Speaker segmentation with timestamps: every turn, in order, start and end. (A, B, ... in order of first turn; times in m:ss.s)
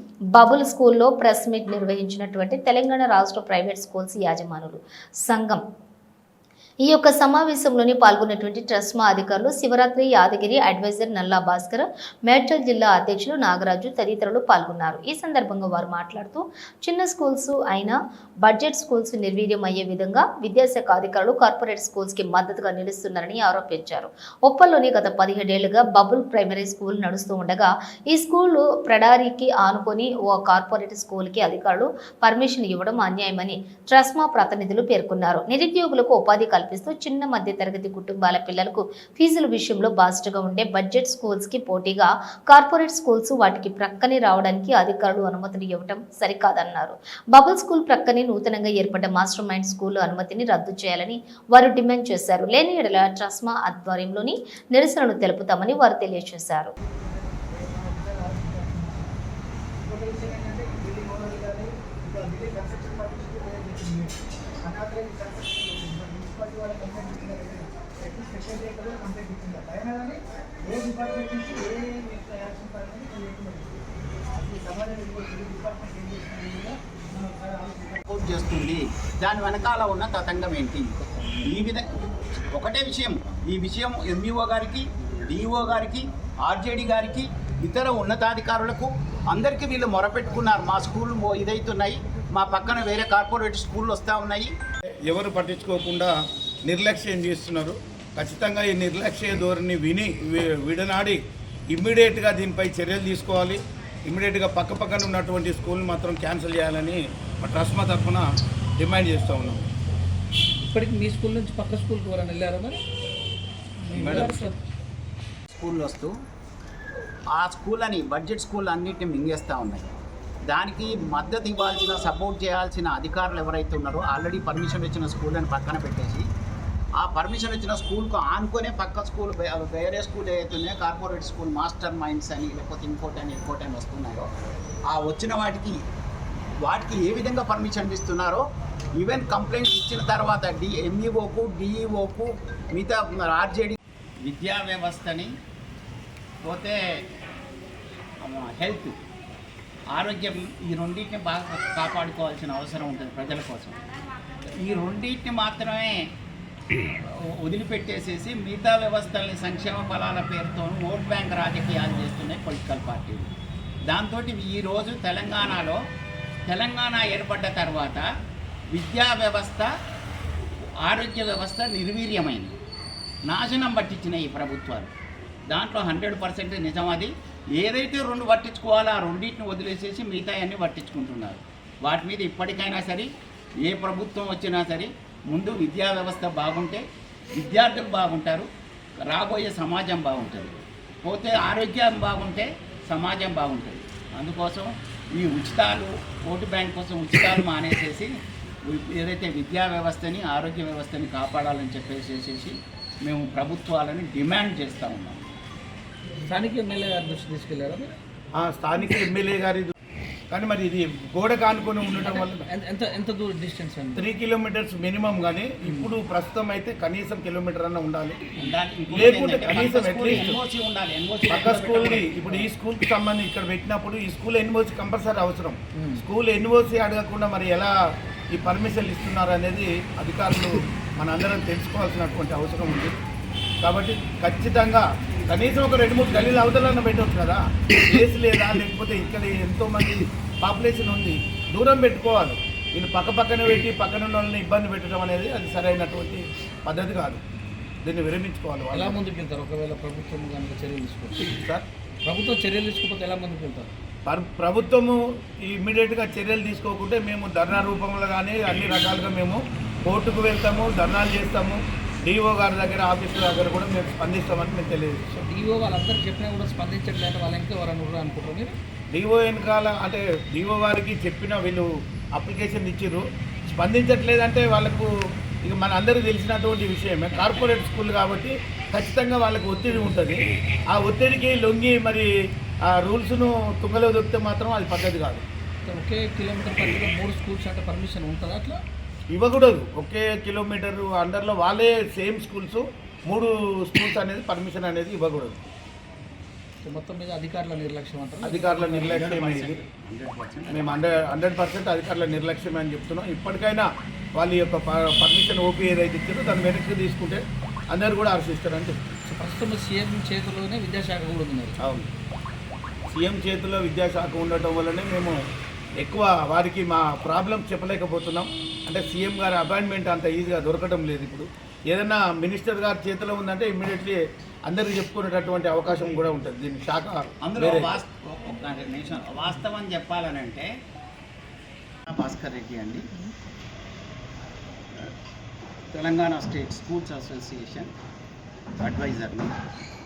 0:00.3-0:05.6 A
0:06.8-0:56.7 A
0:56.8-0:59.2 B
0:59.8-1:04.1 B
1:04.6-1:13.8 B
1:14.3-1:18.0 B
1:18.1-1:34.5 C
1:35.0-1:36.1 D
1:36.6-1:41.2 D
1:41.7-1:48.2 D
1:48.8-1:49.6 D
1:50.7-1:52.8 E
1:53.8-1:54.6 E
1:53.9-1:54.5 D
1:55.5-1:56.1 C
1:57.3-2:06.3 C
2:07.0-2:14.3 C
2:14.9-2:15.8 C
2:16.6-2:18.4 C
2:19.0-2:25.3 C
2:26.4-2:26.8 C
2:28.2-2:29.0 C
2:29.9-2:33.8 C
2:34.5-2:36.1 C
2:37.0-2:43.3 C
2:43.9-2:45.8 C
2:46.5-2:48.0 C
2:48.7-2:49.7 C
2:50.8-2:52.6 C
2:53.3-2:54.9 C
2:55.5-3:03.1 C
3:03.6-3:06.8 C
3:07.3-3:08.5 C
3:09.0-3:18.1 C
3:18.6-3:25.2 C
3:26.3-3:27.9 E
3:28.4-3:29.7 D
3:30.3-3:32.4 D
3:32.0-3:34.1 E
3:34.0-3:38.2 D
3:35.6-3:35.9 E
3:38.4-3:42.4 C
3:38.9-3:40.4 D
3:41.3-3:47.7 D
3:45.8-3:46.0 E
3:48.3-3:53.0 D
3:53.6-4:07.2 D
4:07.8-4:09.0 D
4:08.7-4:11.4 E
4:11.4-4:11.7 D
4:12.0-4:13.7 E
4:14.1-4:25.0 D
4:25.1-4:28.6 E
4:28.9-4:34.9 D
4:35.4-4:42.1 D
4:42.7-4:45.2 D
4:45.7-4:48.6 E
4:49.1-4:55.4 D
4:56.6-4:59.1 E
4:58.2-4:59.6 D
4:58.8-5:00.8 C
5:00.5-5:08.8 D
5:09.1-5:11.5 E
5:11.6-5:11.9 D
5:12.9-5:15.2 D
5:15.8-5:27.7 D
5:27.2-5:30.5 C
5:31.9-5:32.8 C
5:35.7-5:37.7 C
5:38.6-5:39.3 C